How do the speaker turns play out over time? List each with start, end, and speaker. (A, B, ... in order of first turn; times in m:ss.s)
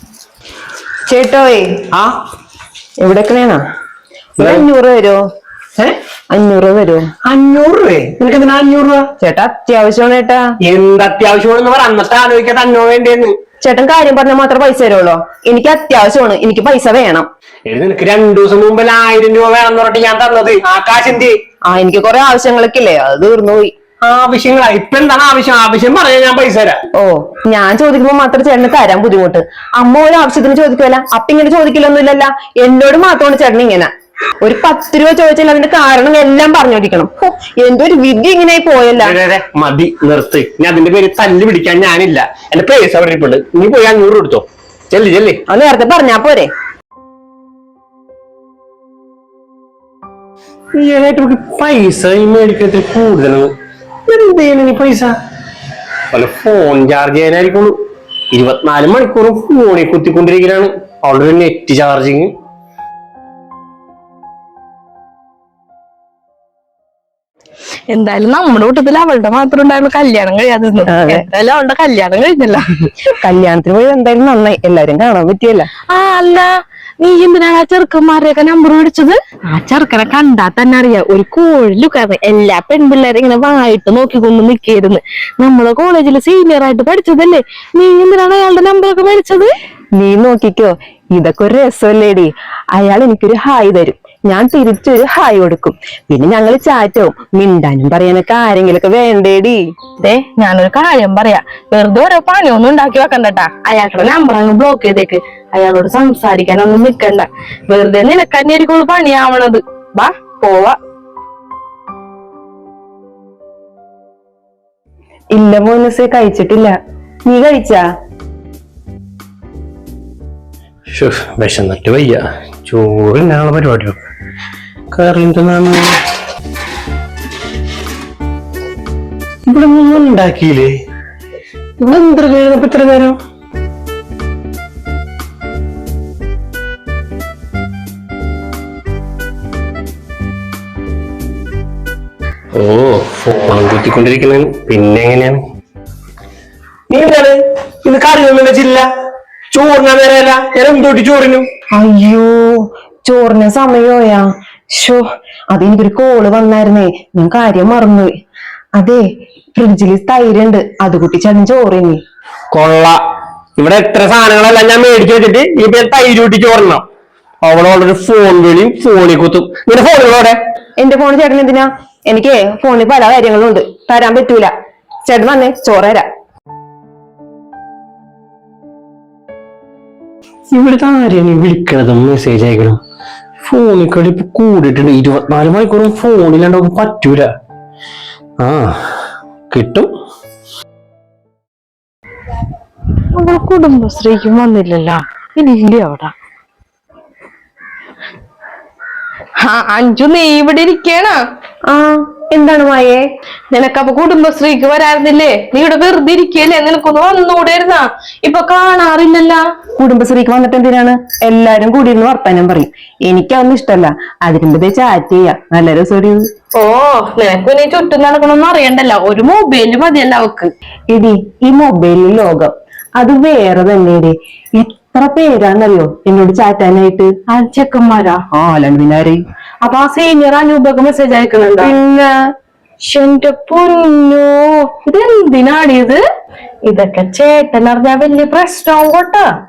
0:01.1-0:01.7 A
0:03.0-0:03.6 A
0:04.4-0:05.2 A
0:04.4-0:04.6 B
0:06.3-0:07.0 A
0:07.2-0:09.1 B
0:09.2-0:10.4 A
0:10.6-0:13.3 B
0:13.6-0:17.3 A
0:17.7-0:21.3 B
0:21.7-0:23.7 A
0:24.0-0:26.8 B
0:27.0-0:33.9 A
0:34.4-0:39.2 A
0:39.0-0:45.4 B
0:45.5-0:46.5 A
0:50.8-0:53.5 B
0:54.1-0:55.1 B
0:56.1-0:57.7 B
0:58.3-1:02.3 B
1:07.9-1:12.6 C
1:10.9-1:11.2 A
1:13.2-1:15.7 A
1:15.9-1:16.5 C
1:17.0-1:29.5 C
1:30.0-1:39.7 A
1:40.0-1:50.8 C
1:55.3-1:56.7 A
1:57.2-1:57.8 A
2:00.9-2:04.0 B
2:04.9-2:05.8 B
2:09.5-2:10.7 B
2:11.8-2:13.2 B
2:22.5-2:25.4 B
2:26.9-2:27.3 B
2:27.8-2:28.8 B
2:29.5-2:31.5 B
2:31.8-2:38.1 A
2:38.8-2:39.0 A
2:39.5-2:42.0 A
2:42.5-2:43.0 B
2:43.6-2:46.8 B
2:47.4-2:50.4 B
2:50.8-2:54.5 A
2:55.1-2:56.0 A
3:00.5-3:02.8 B
3:03.4-3:07.3 B
3:08.4-3:08.9 B
3:09.5-3:09.9 B
3:13.1-3:16.1 C
3:19.4-3:21.2 C
3:21.7-3:23.0 A
3:23.5-3:29.4 C
3:29.8-3:36.2 A
3:36.5-3:40.5 C
3:40.9-3:47.1 A
3:47.3-3:48.2 C
3:48.3-3:49.2 A
3:49.6-3:51.8 C
3:51.6-3:52.1 A
3:52.8-3:56.0 C
3:56.7-3:59.3 C